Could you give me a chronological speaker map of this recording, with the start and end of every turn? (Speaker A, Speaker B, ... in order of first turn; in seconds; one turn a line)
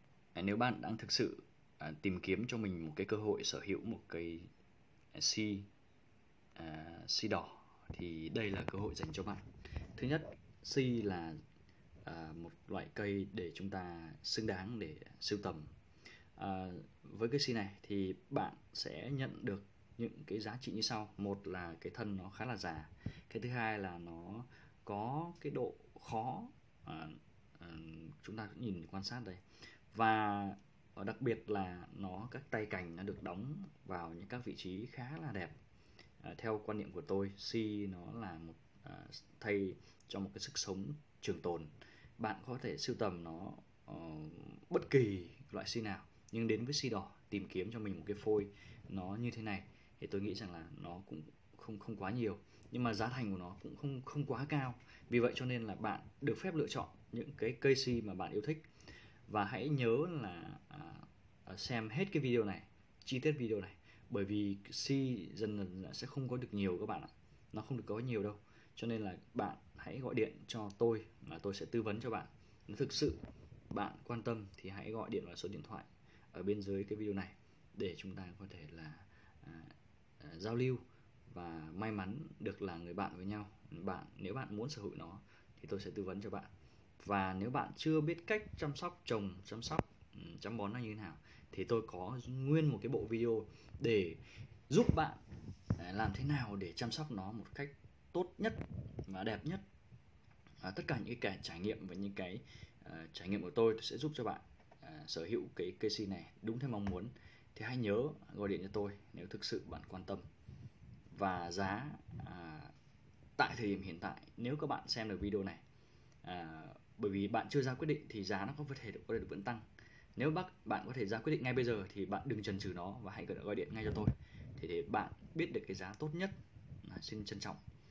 Speaker A: 0.3-4.5
Speaker A: 5.1-5.7
Speaker A: 6.5-9.4
Speaker A: 9.9-11.4
Speaker A: 12.0-15.7
Speaker A: 16.4-35.6
Speaker A: 36.2-58.6
Speaker A: 59.3-95.2
Speaker A: 95.8-99.6
Speaker A: 100.6-110.2
Speaker A: 111.1-112.7
Speaker A: 113.4-115.6
Speaker A: 116.2-119.6
Speaker A: 120.2-127.6